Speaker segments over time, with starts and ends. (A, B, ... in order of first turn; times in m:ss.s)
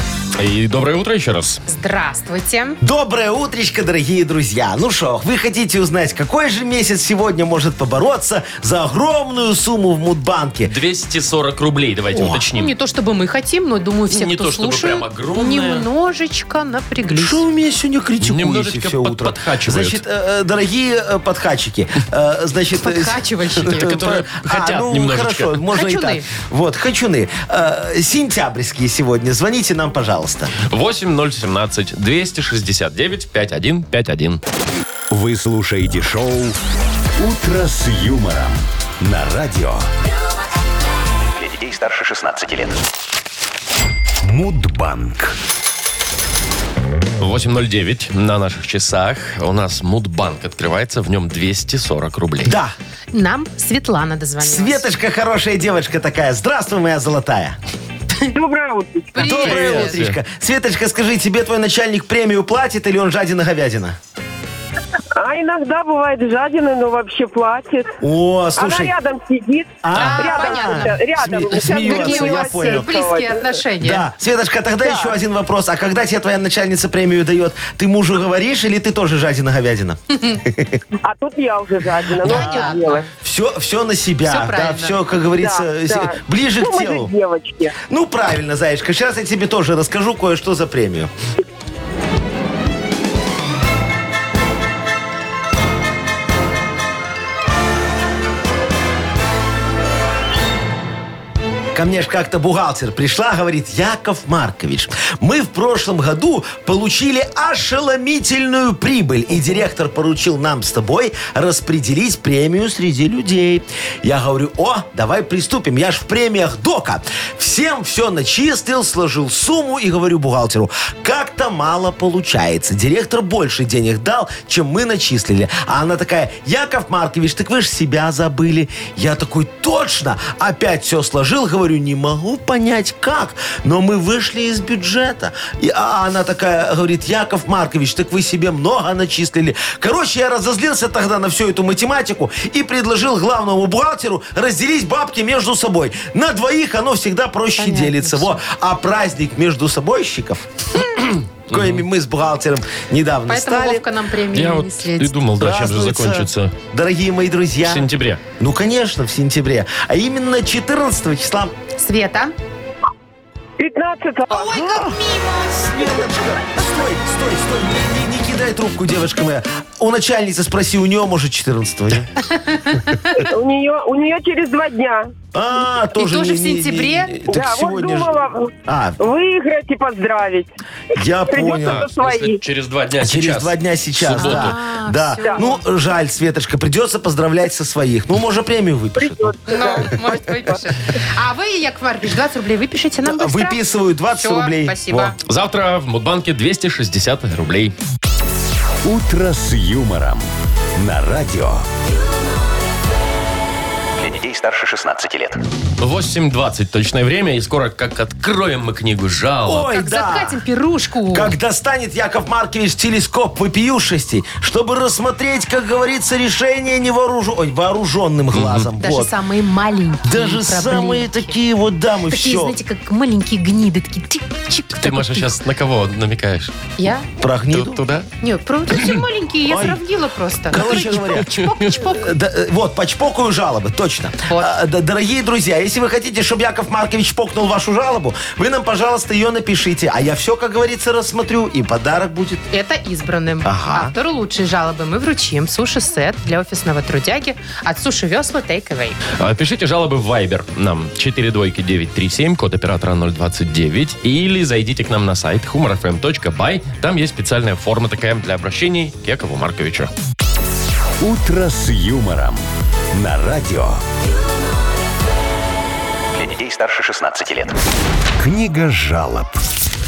0:00.4-0:01.6 A
0:01.7-0:02.8 B
0:02.8-0:10.7 C
0:10.6-0:12.7 A
0:12.1-0:12.5 C
0:12.5-0:17.4 B
0:14.1-0:15.8 A
0:17.1-0:30.5 C
0:18.2-0:20.0 A
0:22.8-0:24.0 B
0:23.6-0:25.5 A
0:25.7-0:26.3 B
0:30.6-0:34.4 A
0:35.1-0:36.6 D
0:37.2-0:39.8 D
0:41.4-0:42.8 E
0:44.2-0:45.4 D
0:47.2-0:52.5 A
0:52.4-0:52.7 C
0:53.1-0:54.9 B
0:54.4-0:57.6 C
0:58.3-0:59.1 F
0:59.1-1:00.0 B
0:59.2-1:04.0 C
0:59.2-1:00.2 A
1:05.2-1:07.9 F
1:08.0-1:08.9 C
1:08.6-1:13.6 F
1:09.8-1:12.9 C
1:09.9-1:14.0 B
1:13.8-1:20.8 C
1:14.8-1:15.1 F
1:21.0-1:23.0 F
1:22.2-1:27.1 C
1:22.2-1:23.0 B
1:24.3-1:25.0 B
1:25.4-1:27.8 F
1:27.9-1:31.1 C
1:41.7-2:33.8 C
2:27.6-2:28.4 B
2:31.5-2:31.8 A
2:33.3-2:35.2 B
2:34.3-2:36.5 A
2:35.4-2:41.5 C
2:37.6-2:38.2 A
2:41.8-2:42.4 B
2:43.6-2:44.5 F
2:44.3-2:45.9 B
2:44.5-2:52.1 C
2:52.3-2:53.2 B
2:53.2-2:55.1 F
2:55.3-2:59.0 C
2:55.9-2:57.1 B
2:57.3-3:00.5 F
3:00.9-3:01.9 C
3:01.3-3:02.4 F
3:01.5-3:04.6 A
3:03.0-3:09.3 C
3:04.2-3:05.6 B
3:09.0-3:10.6 F
3:09.5-3:13.6 B
3:13.0-3:15.1 C
3:14.1-3:15.2 B
3:15.2-3:17.7 A
3:18.8-3:21.6 D
3:24.0-3:25.4 E
3:25.8-3:29.7 A
3:29.4-3:30.4 C
3:29.7-3:31.3 B
3:31.1-3:39.1 C
3:38.3-3:38.7 A
3:38.8-3:41.4 B
3:40.0-3:42.6 C
3:42.1-3:45.4 B
3:44.8-3:46.5 A
3:46.8-3:47.1 B
3:47.2-3:47.8 C
3:47.5-3:48.1 A
3:48.2-3:52.1 B
3:49.4-3:49.8 C
3:50.4-4:02.4 C
3:50.6-3:51.7 A
3:54.3-3:54.6 B
4:02.5-4:09.0 B
4:03.4-4:03.9 C
4:09.2-4:19.9 A
4:21.0-4:22.4 D
4:22.9-4:23.8 D
4:26.1-4:27.6 E
4:28.2-4:29.4 D